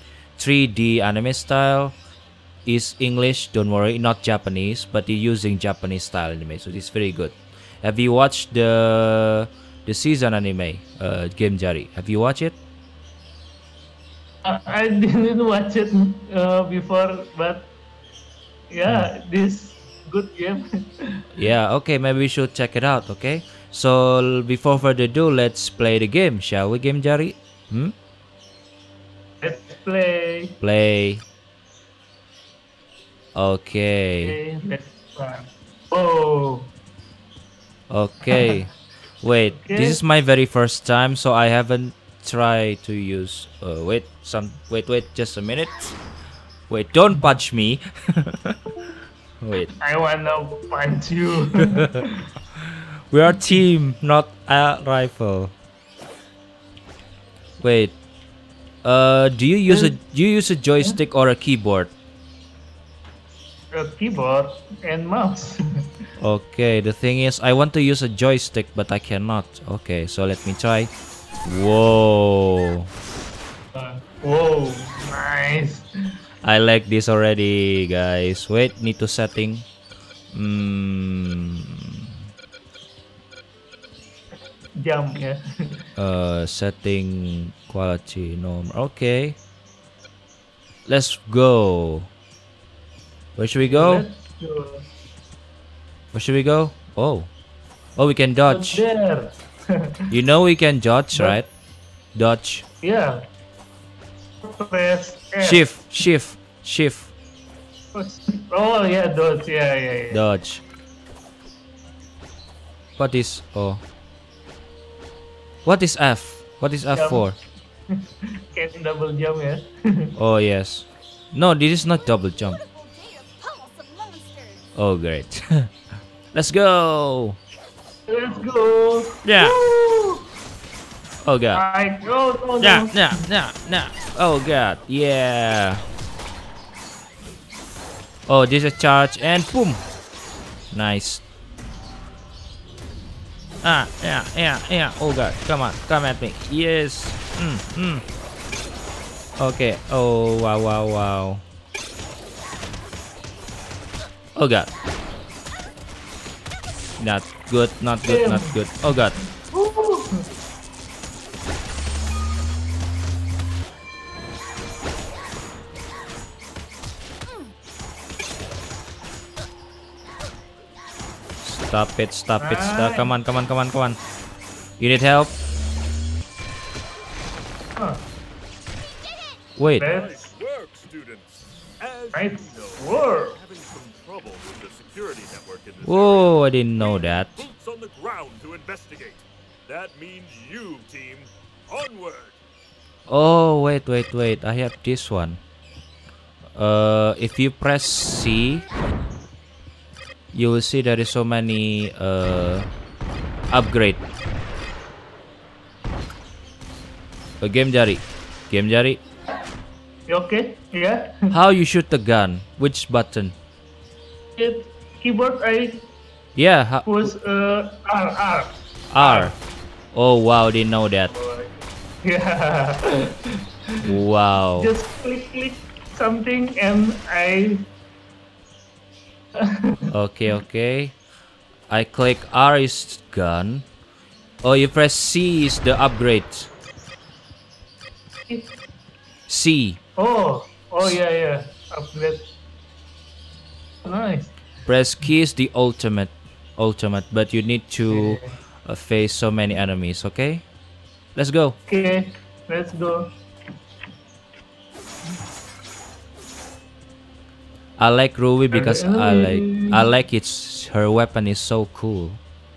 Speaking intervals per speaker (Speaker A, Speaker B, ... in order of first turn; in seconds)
Speaker A: 0.4-1.9, 2.6-12.6, 18.9-19.1, 21.3-27.9, 30.6-31.2, 33.4-34.4, 37.9-38.7, 39.2-46.0, 46.7-48.6, 49.4-49.7, 52.5-55.5, 57.6-57.9, 58.8-61.9, 66.2-70.9, 71.5-72.9, 76.4-79.7, 80.3-82.2, 86.0-89.4, 90.9-92.1, 93.4-94.1, 96.1-97.3, 98.0-98.8, 100.1-101.5, 102.2-102.7, 105.4-107.1, 110.1-110.6, 113.0-113.8, 115.7-117.4, 120.2-122.6, 124.8-125.7, 126.3-127.4, 129.2-129.6, 131.2-131.6, 132.6-135.8, 138.3-139.8, 140.7-141.2, 143.6-148.0, 149.4-151.4, 154.3-154.7, 157.0-159.2, 171.4-174.0, 174.8-175.3, 179.6-179.9, 185.8-187.5, 193.1-195.4, 196.6-198.7, 200.3-202.7, 203.5-204.0, 207.4-209.0, 211.3-213.3, 216.4-217.1, 218.9-219.4, 219.9-221.1, 223.8-224.7, 229.9-230.9, 231.7-233.7, 234.4-236.5, 239.3-239.8, 244.7-250.4, 251.2-251.6, 257.8-262.2
Speaker B: 14.4-17.7, 18.7-21.3, 29.4-30.6, 34.2-36.7, 39.5-40.0, 49.8-52.2, 59.7-60.0, 63.7-65.6, 73.7-75.9, 84.8-85.4, 93.7-94.9, 98.5-100.1, 101.1-101.4, 102.8-103.3, 104.4-105.7, 107.9-110.2, 116.9-117.2, 117.9-120.2, 128.1-130.2, 131.5-133.2, 158.1-160.2, 172.4-173.1, 177.8-178.0, 179.8-180.3, 182.1-183.4, 210.1-211.3, 214.4-215.9, 216.8-219.3, 221.1-221.5, 222.0-223.9, 224.6-227.7, 229.4-229.9, 240.0-242.3, 243.8-244.4, 247.9-248.4, 251.7-253.1, 258.5-259.9
Speaker C: 122.0-124.7, 179.1-179.4
Speaker D: 179.8-192.4